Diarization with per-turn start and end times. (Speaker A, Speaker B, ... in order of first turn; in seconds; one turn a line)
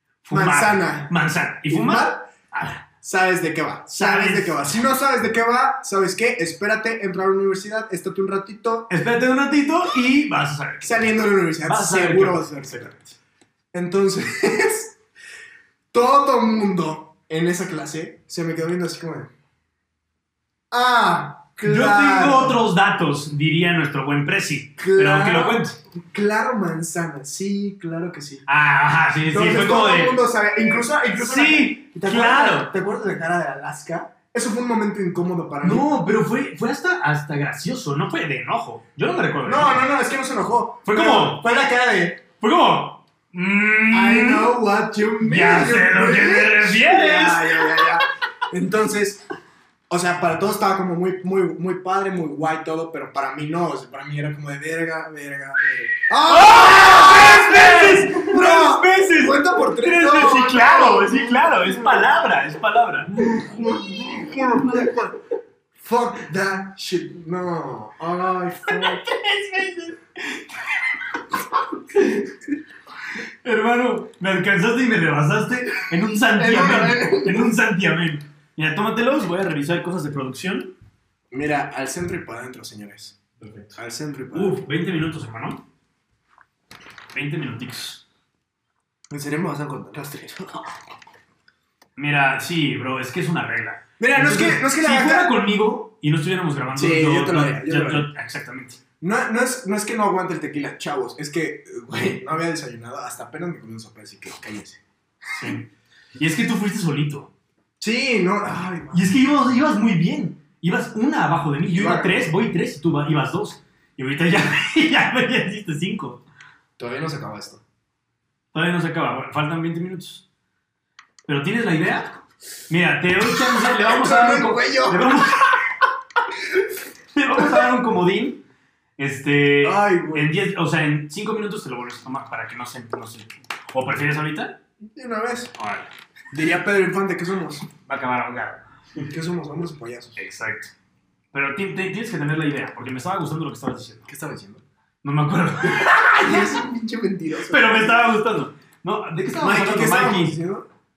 Speaker A: 0.2-2.9
Speaker B: 0.3-1.1
Speaker B: 1.7-2.3
Speaker B: 3.0-8.9
Speaker A: 3.9-4.7
Speaker A: 8.9-11.0
Speaker B: 10.8-13.0
Speaker A: 11.6-13.0
Speaker B: 13.7-15.0
Speaker B: 15.9-19.3
Speaker B: 20.7-22.6
Speaker A: 21.6-25.8
Speaker B: 24.8-28.4
Speaker A: 28.5-30.2
Speaker B: 29.3-35.9
Speaker A: 31.2-32.7
Speaker A: 35.6-39.9
Speaker B: 39.4-42.2
Speaker A: 40.9-41.5
Speaker A: 42.4-44.6
Speaker B: 43.9-49.2
Speaker A: 45.2-47.9
Speaker B: 49.9-62.1
Speaker A: 56.2-63.2
Speaker B: 63.1-65.2
Speaker B: 65.8-69.1
Speaker A: 68.7-70.6
Speaker A: 73.2-80.7
Speaker B: 76.3-77.5
Speaker B: 81.3-83.2
Speaker A: 83.4-83.8
Speaker B: 83.8-84.6
Speaker A: 84.3-85.6
Speaker A: 87.1-88.0
Speaker B: 89.1-90.7
Speaker A: 92.0-98.8
Speaker B: 94.0-95.5
Speaker B: 96.8-98.1
Speaker B: 99.0-104.8
Speaker A: 105.3-107.3
Speaker B: 107.8-109.2
Speaker A: 108.9-116.2
Speaker B: 111.8-112.3
Speaker B: 116.8-117.6
Speaker A: 118.5-120.2
Speaker A: 121.3-125.7
Speaker B: 123.5-125.4
Speaker A: 127.1-128.4
Speaker B: 127.4-127.7
Speaker A: 129.0-134.6
Speaker B: 129.6-130.3
Speaker B: 134.8-135.5
Speaker A: 135.6-135.9
Speaker B: 136.3-137.7
Speaker A: 137.9-138.6
Speaker B: 139.0-140.2
Speaker A: 140.2-140.7
Speaker A: 141.3-144.1
Speaker B: 144.1-144.6
Speaker A: 145.0-146.5
Speaker B: 145.7-147.9
Speaker A: 147.4-150.4
Speaker B: 149.2-150.7